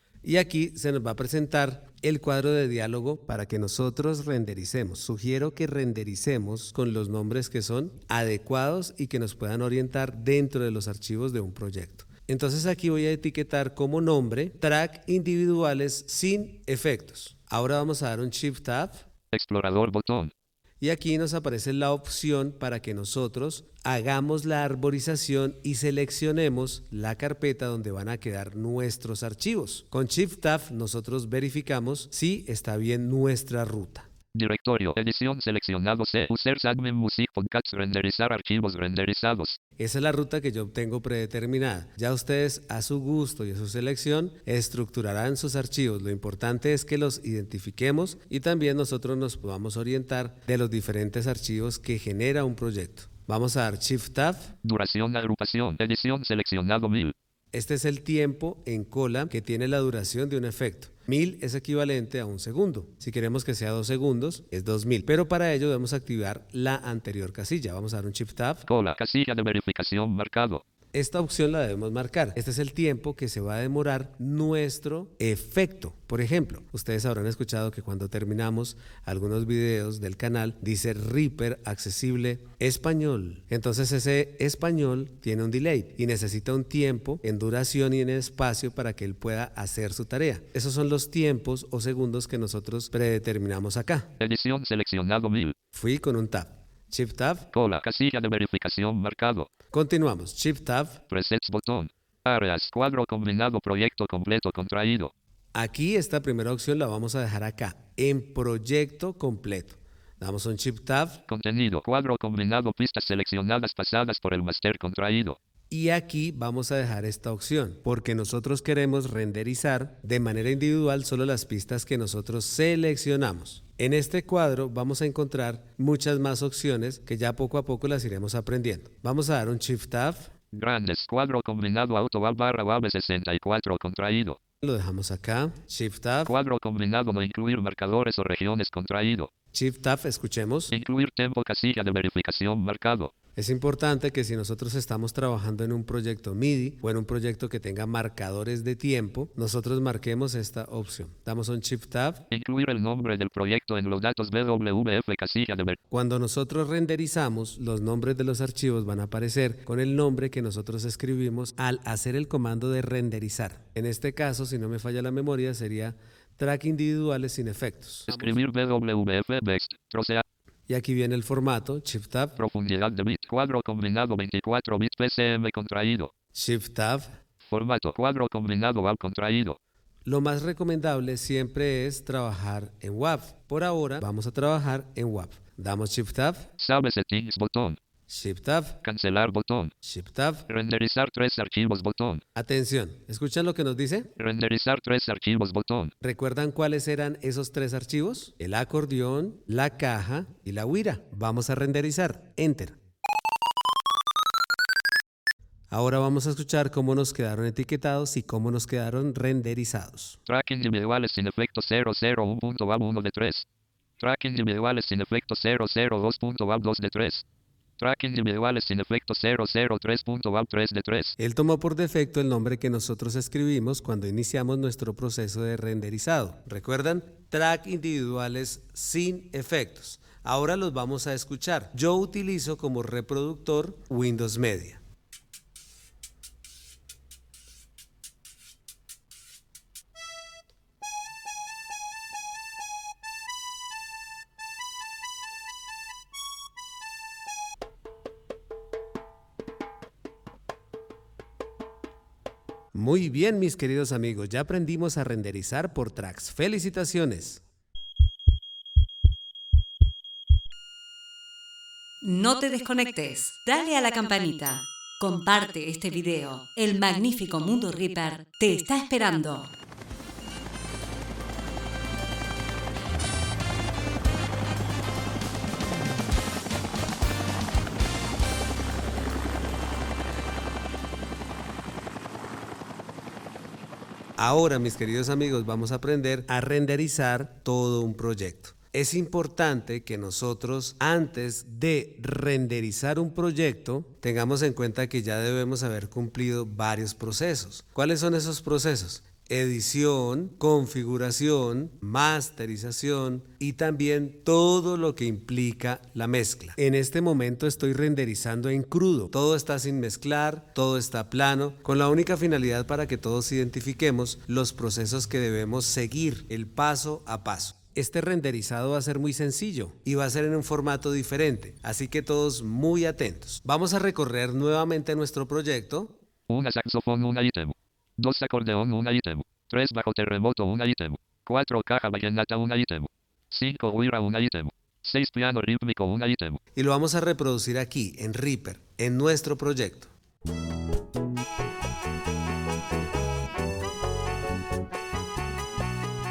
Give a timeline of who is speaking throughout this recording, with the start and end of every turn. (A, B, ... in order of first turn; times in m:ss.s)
0:00.2-0:19.0 A
0:19.3-0:20.3 B
0:20.8-0:34.1 A
0:34.3-0:39.6 B
0:39.8-0:54.5 A
0:54.6-0:57.1 B
0:57.5-1:08.6 A
1:08.7-1:10.6 B
1:10.9-1:34.1 A
1:34.2-1:35.6 B
1:35.7-1:37.5 A
1:37.5-1:39.5 B
1:39.7-1:41.0 A
1:41.1-1:45.1 B
1:45.5-1:51.2 A
1:51.3-1:55.4 B
1:55.7-2:10.3 A
2:10.5-2:14.4 B
2:14.6-2:16.3 A
2:16.2-2:19.3 B
2:19.5-2:20.7 A
2:20.7-2:23.1 B
2:23.4-2:32.2 A
2:32.3-2:35.8 B
2:35.9-2:48.4 A
2:48.1-2:50.2 B
2:50.7-2:52.4 A
2:52.4-2:56.1 B
2:56.3-2:57.1 A
2:57.5-2:59.6 B
3:00.0-3:06.5 A
3:06.6-3:07.8 B
3:08.1-3:08.8 A
3:08.8-3:09.7 B
3:09.8-3:10.4 A
3:10.5-3:12.2 B
3:12.3-3:14.1 A
3:14.2-3:15.9 B
3:16.0-3:22.8 A
3:25.7-3:30.2 A
3:30.2-3:33.4 B
3:34.0-3:37.2 B
3:37.8-3:41.1 B
3:41.2-3:54.8 A
4:12.7-4:17.4 A
4:22.0-4:29.5 C
4:44.2-5:26.0 A
5:26.3-5:36.4 B
5:36.5-5:39.9 A